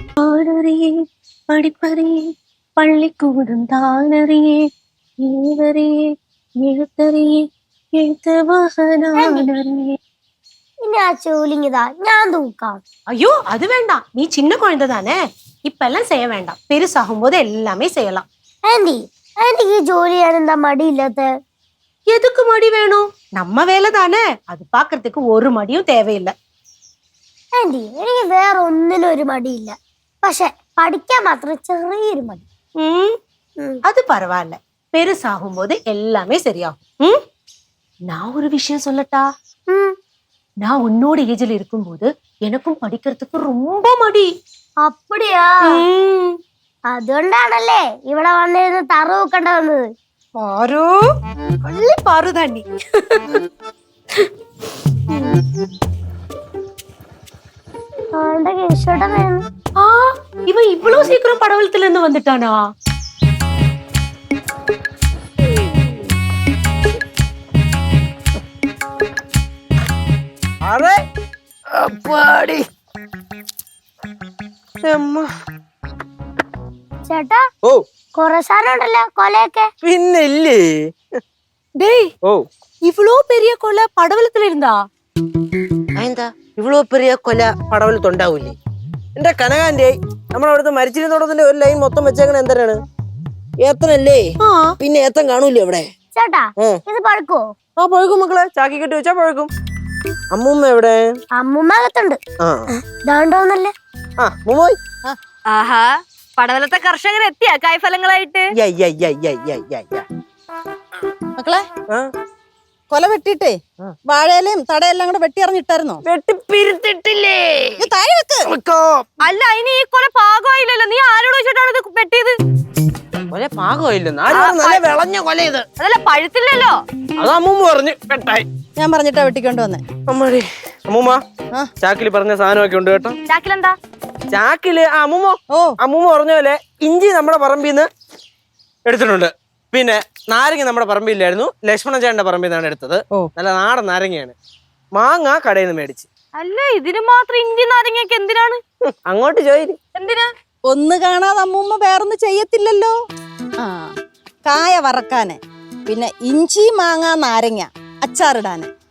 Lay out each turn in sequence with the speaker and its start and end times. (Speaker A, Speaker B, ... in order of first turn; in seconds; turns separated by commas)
Speaker A: 0.2-0.9, Speaker A: 1.5-4.6, Speaker A: 5.2-10.0, Speaker B: 9.2-9.5, Speaker B: 10.8-12.8, Speaker A: 13.1-18.2, Speaker B: 18.7-21.3, Speaker A: 22.1-26.3, Speaker B: 27.6-32.4, Speaker C: 32.8-33.2, Speaker A: 33.9-37.1, Speaker A: 38.1-39.3, Speaker A: 40.6-44.3, Speaker B: 44.8-45.8, Speaker A: 45.6-46.2, Speaker B: 46.9-49.9, Speaker A: 50.4-51.0, Speaker A: 51.6-53.4, Speaker B: 58.1-59.5, Speaker A: 59.8-62.6, Speaker D: 70.6-71.0, Speaker D: 71.7-72.6, Speaker D: 74.8-75.3, Speaker B: 77.1-77.4, Speaker B: 78.2-79.7, Speaker D: 79.8-80.9, Speaker A: 81.8-82.1, Speaker A: 82.8-84.8, Speaker D: 86.0-88.6, Speaker D: 89.2-92.8, Speaker D: 93.6-95.9, Speaker A: 94.4-94.8, Speaker B: 96.2-97.5, Speaker D: 97.8-99.5, Speaker D: 100.3-101.2, Speaker B: 101.4-102.2, Speaker D: 102.4-102.7, Speaker B: 102.8-103.7, Speaker D: 104.2-104.8, Speaker C: 105.5-108.5, Speaker D: 108.5-110.0, Speaker E: 111.4-111.6, Speaker E: 112.9-116.0, Speaker D: 116.1-117.9, Speaker E: 117.8-118.5, Speaker D: 118.5-119.1, Speaker C: 119.2-122.4, Speaker D: 123.3-125.7, Speaker C: 124.3-124.9, Speaker C: 125.8-126.8, Speaker D: 127.2-128.5, Speaker E: 128.8-129.8, Speaker D: 130.1-131.2, Speaker D: 131.8-133.2, Speaker C: 133.3-133.8, Speaker D: 134.3-137.9, Speaker D: 138.9-144.3, Speaker D: 144.9-146.1, Speaker C: 146.4-148.6, Speaker D: 148.9-149.8, Speaker C: 149.9-150.3, Speaker E: 150.7-152.9, Speaker E: 153.6-153.9, Speaker E: 154.4-158.7